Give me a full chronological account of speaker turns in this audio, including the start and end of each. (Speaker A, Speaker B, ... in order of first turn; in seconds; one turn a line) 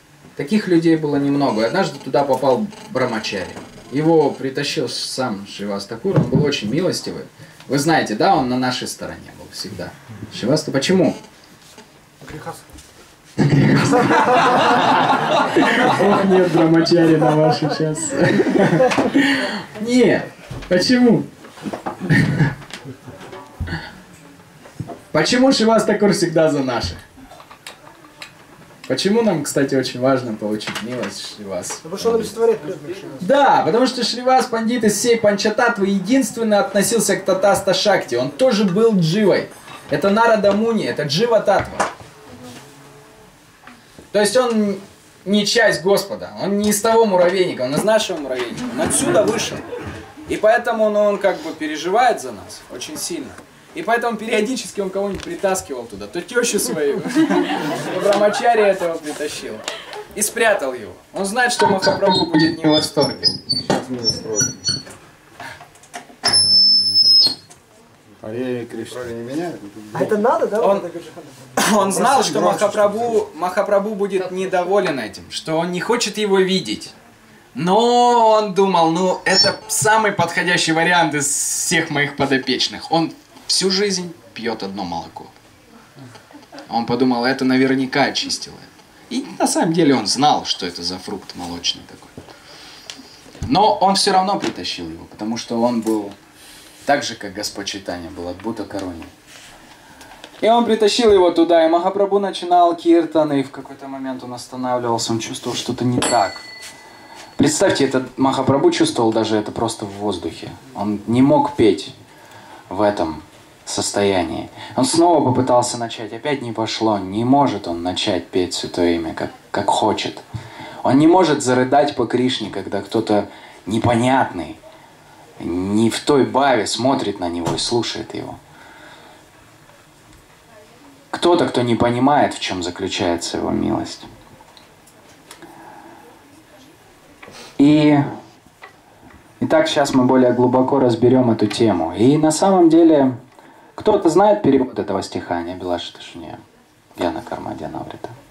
Speaker A: 0.3-11.2
Speaker B: 12.2-12.7
Speaker A: 13.4-21.3
Speaker A: 22.1-22.5
Speaker A: 25.1-27.0
Speaker A: 28.9-32.3
Speaker B: 31.8-33.3
Speaker A: 33.2-41.9
Speaker A: 44.1-49.6
Speaker A: 50.3-63.4
Speaker C: 63.5-64.6
Speaker C: 68.2-70.2
Speaker B: 69.9-72.5
Speaker A: 70.6-70.8
Speaker A: 71.6-76.9
Speaker C: 71.8-73.2
Speaker A: 77.5-85.3
Speaker A: 86.7-92.1
Speaker A: 93.4-96.2
Speaker A: 96.8-99.1
Speaker A: 100.4-106.4
Speaker A: 107.4-111.9
Speaker A: 112.7-120.2
Speaker A: 120.8-124.6
Speaker A: 125.4-128.4
Speaker A: 131.1-134.1
Speaker A: 137.6-138.0
Speaker A: 139.4-143.2
Speaker A: 143.8-146.4
Speaker A: 147.0-148.2